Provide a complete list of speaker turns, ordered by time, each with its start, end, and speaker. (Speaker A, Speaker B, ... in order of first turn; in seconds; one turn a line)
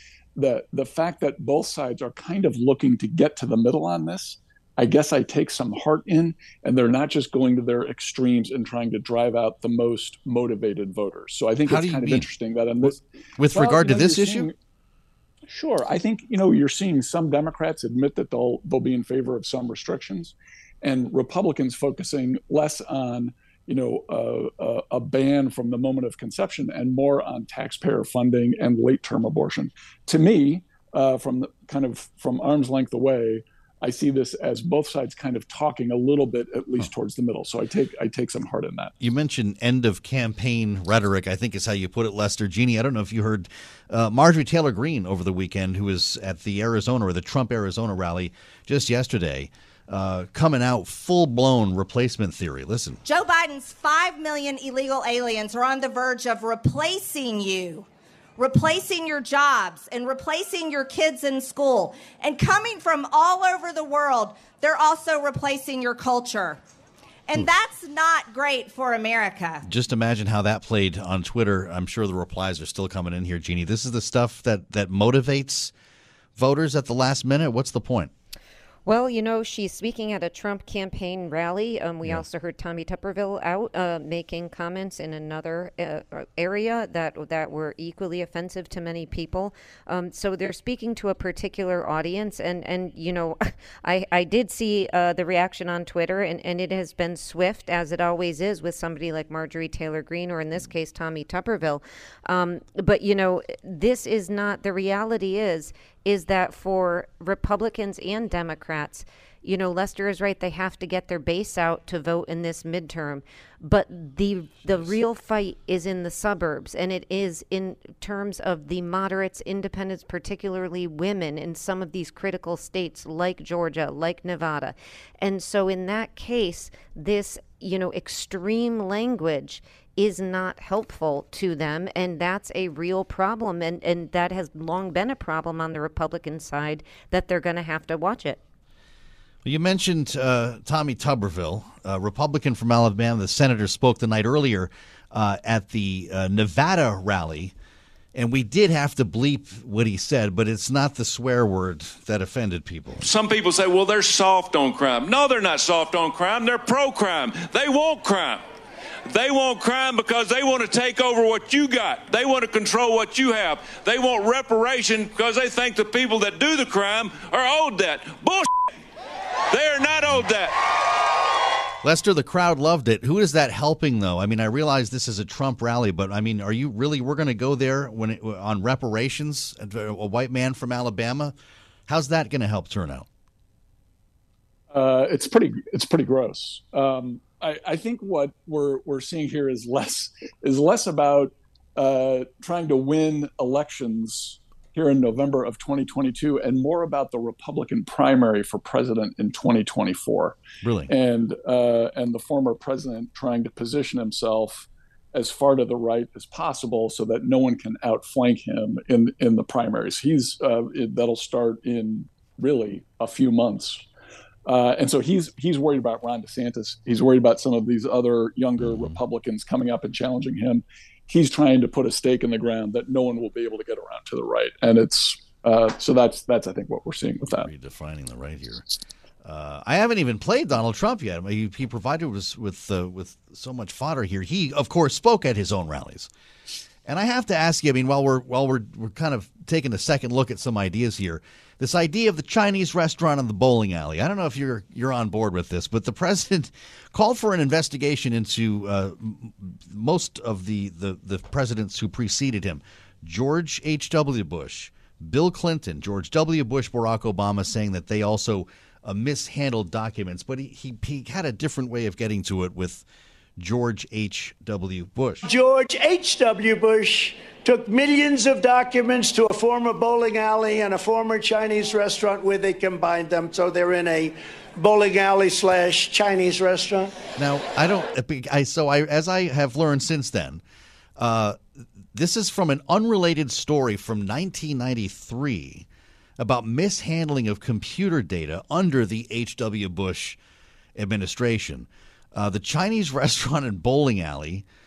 Speaker A: 0.3-14.5
Speaker B: 11.7-12.3
Speaker B: 12.8-14.5
Speaker A: 15.5-38.9
Speaker B: 39.0-53.0
Speaker C: 53.0-66.6
Speaker C: 67.3-69.6
Speaker B: 69.6-75.7
Speaker B: 76.3-78.1
Speaker D: 78.8-138.4
Speaker B: 139.4-147.5
Speaker B: 148.1-153.1
Speaker E: 153.0-158.4
Speaker E: 159.1-168.5
Speaker E: 169.5-170.5
Speaker B: 171.8-181.3
Speaker B: 181.9-183.1
Speaker A: 184.7-213.9
Speaker B: 200.6-200.9
Speaker A: 214.4-227.5
Speaker B: 218.6-219.0
Speaker B: 227.2-228.7
Speaker B: 229.2-236.1
Speaker B: 236.8-262.8
Speaker B: 263.4-265.2
Speaker F: 265.2-276.9
Speaker B: 277.2-280.4
Speaker B: 281.0-285.6
Speaker B: 286.2-290.2
Speaker B: 290.8-294.4